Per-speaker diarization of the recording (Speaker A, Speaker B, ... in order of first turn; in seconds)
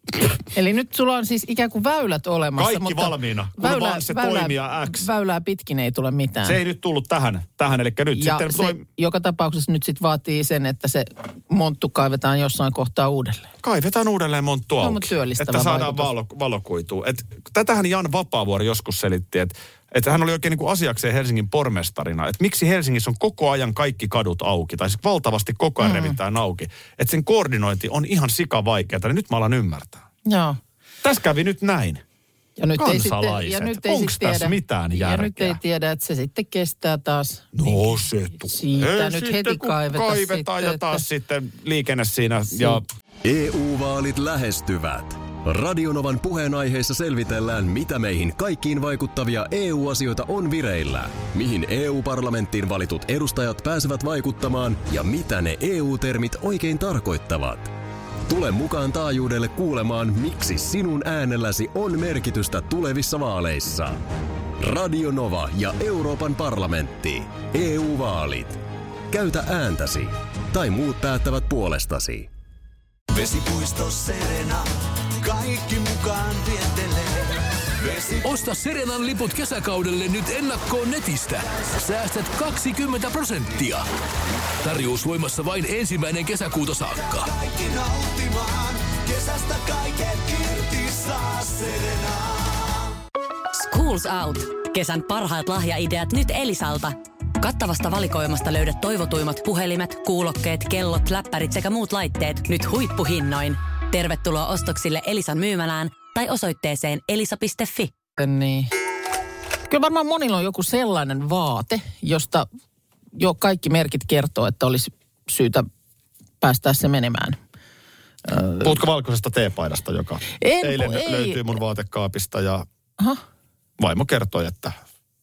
Speaker A: 0.5-6.6, 8.1-13.5, 14.8-16.1, 25.8-26.2, 30.2-30.6, 32.6-41.0, 108.2-108.7, 109.7-112.5, 113.1-115.7, 116.4-117.4, 118.2-118.7, 120.4-121.4
Speaker B: 2.5-5.0, 6.4-8.8, 13.6-30.0, 31.0-32.0, 32.7-35.6, 37.5-42.8, 118.6-122.7, 123.8-124.8
Speaker C: 43.2-57.7, 58.3-64.0, 64.6-72.3
Speaker D: 73.1-78.4, 86.9-92.9
Speaker E: 78.2-83.8, 84.6-87.3
Speaker F: 93.5-107.9